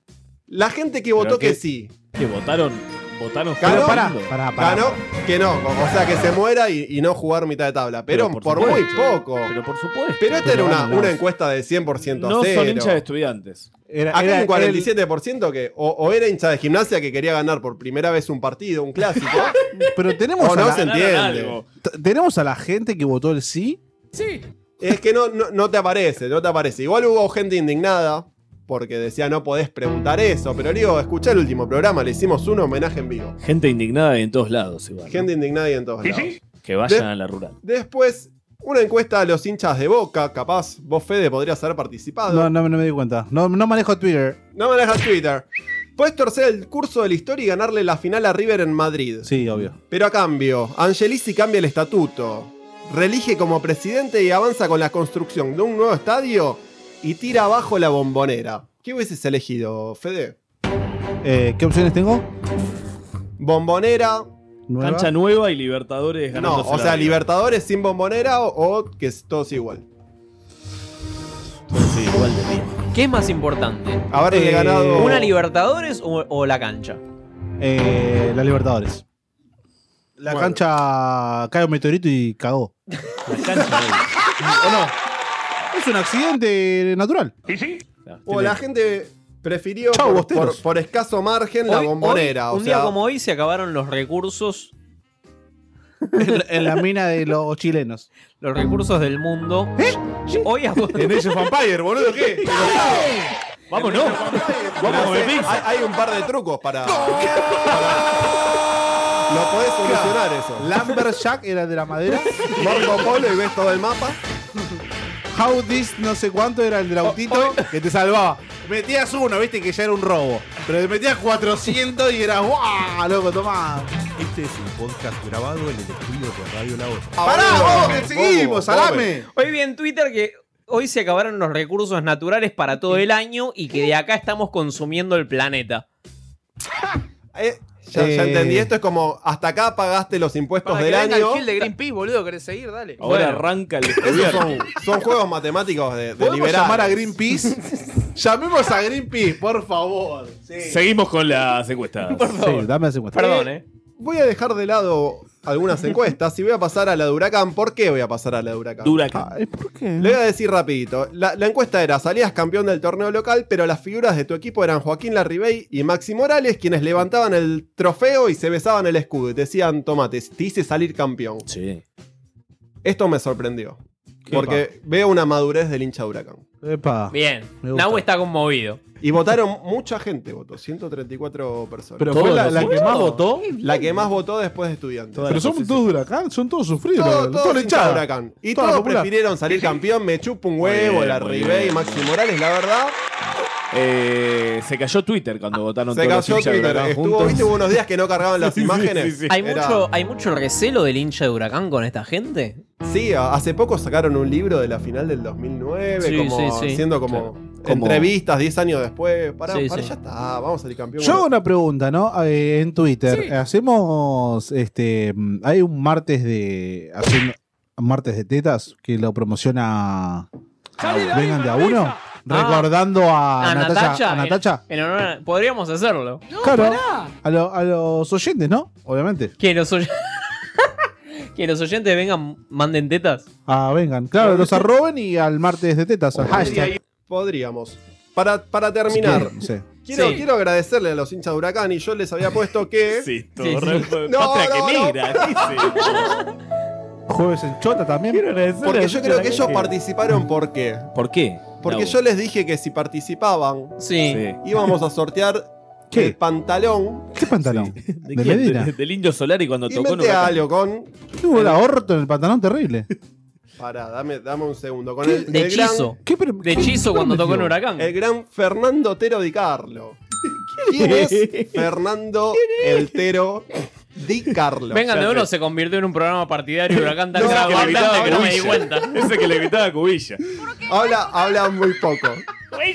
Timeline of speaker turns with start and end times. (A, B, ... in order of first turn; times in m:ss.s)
0:00.5-0:01.9 A
0:01.2-0:01.6 B
0:02.1-0:04.4 B
0:03.6-0:04.0 A
0:03.6-0:05.0 C
0:04.6-0:09.5 A
0:08.1-0:10.6 B
0:10.2-0:13.0 A
0:10.4-0:11.2 C
0:12.2-0:13.7 B
0:13.9-0:14.9 C
0:14.1-0:19.6 A
0:19.9-0:20.8 C
0:20.4-0:21.6 A
0:20.5-0:21.6 B
0:21.8-0:23.8 C
0:24.1-0:24.4 D
0:24.8-0:33.4 A
0:33.4-0:35.3 B
0:35.1-0:37.1 A
0:36.6-0:37.6 B
0:37.6-0:42.5 A
0:42.3-0:44.4 C
0:44.6-0:45.5 A
0:46.0-0:49.4 A
0:49.2-0:49.8 C
0:49.9-1:00.4 A
1:01.2-1:02.3 C
1:03.4-1:04.3 A
1:04.7-1:05.1 C
1:04.8-1:07.2 B
1:06.3-1:09.8 A
1:11.7-1:12.8 B
1:12.9-1:14.1 E
1:14.1-1:15.3 A
1:14.3-1:15.2 C
1:15.0-1:17.0 E
1:17.6-1:19.0 C
1:20.2-1:22.7 C
1:20.3-1:20.6 A
1:23.3-1:24.1 B
1:24.4-1:24.9 C
1:25.7-1:27.3 C
1:28.1-1:28.6 B
1:28.3-1:33.0 A
1:29.9-1:30.6 C
1:31.7-1:34.7 E
1:36.2-1:38.1 C
1:38.4-1:39.8 E
1:40.4-1:41.1 E
1:40.9-1:43.2 C
1:43.7-1:45.6 B
1:43.8-1:45.5 C
1:44.8-1:48.1 A
1:49.3-1:50.7 A
1:49.8-1:53.0 C
1:52.6-1:54.2 A
1:55.3-2:04.0 C
2:04.2-2:07.2 F
2:07.2-2:09.1 A
2:07.2-2:09.3 C
2:09.3-2:15.8 E
2:17.3-2:21.7 A
2:17.9-2:18.7 C
2:20.6-2:23.4 D
2:23.0-2:24.6 B
2:24.0-2:27.1 A
2:26.2-2:27.6 C
2:28.2-2:30.8 C
2:30.6-2:32.3 B
2:32.1-2:33.6 E
2:32.4-2:33.5 C
2:34.0-2:39.0 A
2:38.8-2:39.3 B
2:39.1-2:40.2 C
2:40.0-2:51.5 A
2:51.5-2:51.8 B
2:52.8-2:56.4 A
2:54.3-2:54.6 C
2:56.6-2:58.0 C
2:57.1-2:58.8 E
2:59.0-3:02.9 A
3:02.0-3:03.5 C
3:02.1-3:03.2 B
3:02.9-3:03.2 E
3:03.6-3:05.4 A
3:05.2-3:05.8 B
3:05.2-3:09.1 C
3:07.0-3:13.0 A
3:09.5-3:09.8 B
3:10.6-3:12.1 B
3:13.7-3:17.8 B
3:15.9-3:19.8 A
3:18.4-3:19.3 B
3:19.3-3:22.6 E
3:22.8-3:31.2 A
3:26.0-3:26.8 E
3:27.1-3:28.1 B
3:29.5-3:29.9 E
3:31.0-3:40.3 C
3:33.1-3:33.3 D
3:40.8-3:41.2 B
3:40.8-3:41.9 D
3:41.0-3:44.6 C
3:42.3-3:42.7 E
3:43.4-3:46.2 E
3:46.3-3:47.1 D
3:46.4-3:49.3 C
3:49.4-3:49.9 E
3:51.4-3:53.3 E
3:53.5-3:56.7 C
3:54.2-3:54.6 A
3:56.2-4:05.5 A
3:58.9-3:59.7 C
3:59.9-4:00.2 E
4:03.0-4:06.2 B
4:07.1-4:08.2 C
4:08.1-4:09.8 B
4:08.6-4:10.9 A
4:11.0-4:12.0 B
4:11.6-4:13.8 A
4:13.8-4:14.2 E
4:14.1-4:14.4 B
4:14.4-4:17.1 A
4:15.9-4:16.2 C
4:17.2-4:18.7 C
4:17.4-4:20.4 B
4:19.7-4:21.0 A
4:21.2-4:22.9 C
4:23.6-4:26.0 A
4:25.3-4:27.9 E
4:26.0-4:27.6 C
4:27.8-4:30.0 A
4:30.7-4:35.0 A
4:30.8-4:31.4 B
4:34.7-4:38.9 E
4:35.0-4:35.3 B
4:36.7-4:40.2 B
4:37.1-4:38.7 A
4:40.7-4:42.2 A